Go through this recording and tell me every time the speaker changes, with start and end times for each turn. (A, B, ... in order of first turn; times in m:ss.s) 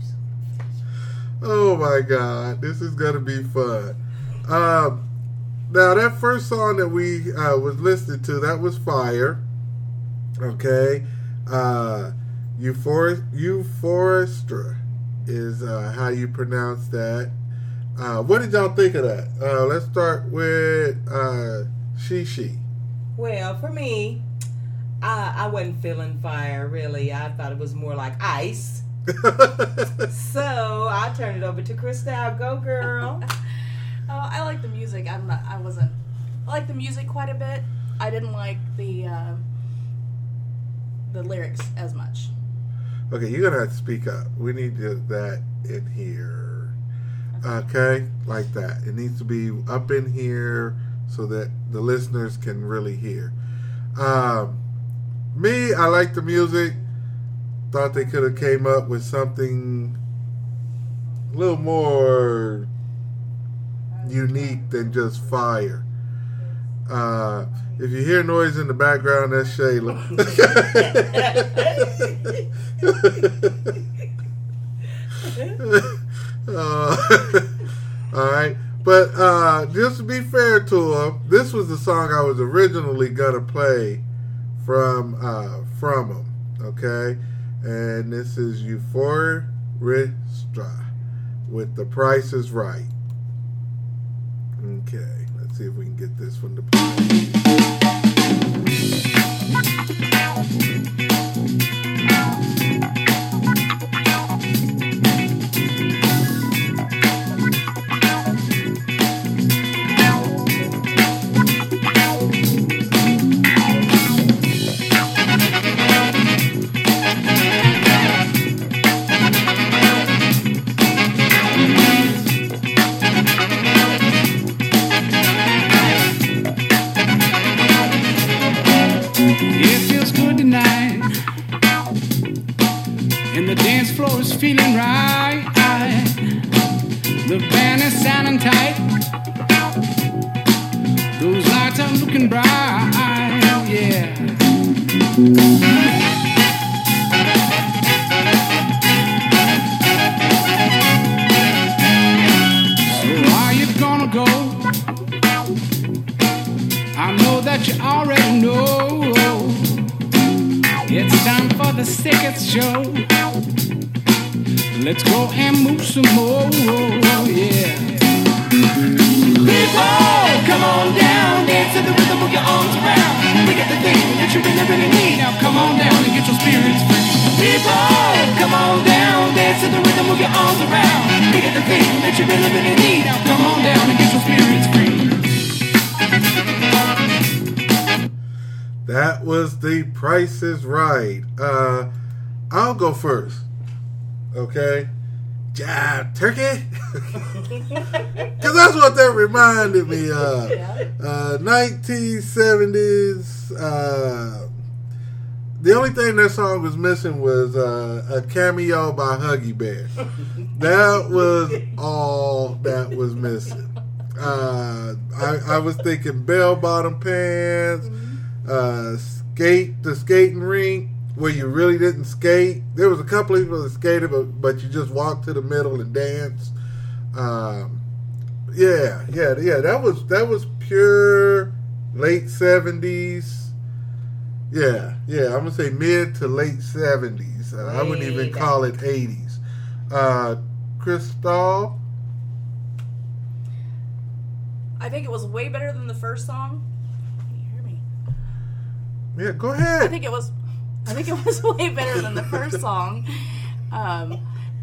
0:01.4-0:05.0 A
0:05.7-0:09.4 A
0:10.4-0:17.3 A
0:18.0-0:22.6 A
0:23.2-0:24.2 B
0:25.0-0:28.8 B
0:29.1-0:30.1 A
0:30.1-0:33.2 B
0:34.1-0:39.4 C
0:41.1-0:42.3 C
0:43.1-0:46.8 A
0:47.4-0:53.4 A
0:54.0-0:54.6 A
0:55.3-0:56.8 A
0:57.7-1:00.0 A
1:01.3-1:02.7 A
1:04.0-1:05.8 A
1:06.9-1:12.1 A
1:12.8-1:13.7 A
1:15.5-1:24.0 A
1:24.6-1:30.9 A
1:31.5-1:32.9 A
1:34.6-1:37.2 A
2:09.5-2:11.1 D
2:13.3-2:16.2 D
2:17.2-2:18.9 D
2:21.2-2:24.4 D
2:33.0-2:34.7 D
2:37.0-2:39.8 D
2:40.8-2:43.1 D
2:44.7-2:48.0 D
2:49.3-3:05.3 D
3:08.8-3:11.9 A
3:12.5-3:13.5 A
3:14.3-3:14.9 A
3:15.5-3:17.5 A
3:18.3-3:24.5 A
3:20.5-3:20.9 C
3:25.6-3:30.0 A
3:30.5-3:33.6 A
3:34.2-3:37.9 A
3:38.4-3:46.6 A
3:47.1-3:47.8 A
3:48.5-3:53.5 A
3:54.5-4:01.8 A
3:57.6-3:58.6 B
4:04.8-4:06.6 C
4:07.3-4:07.8 C
4:09.2-4:10.0 A
4:09.8-4:10.3 C
4:10.8-4:13.1 C
4:11.9-4:12.5 A
4:13.7-4:14.2 C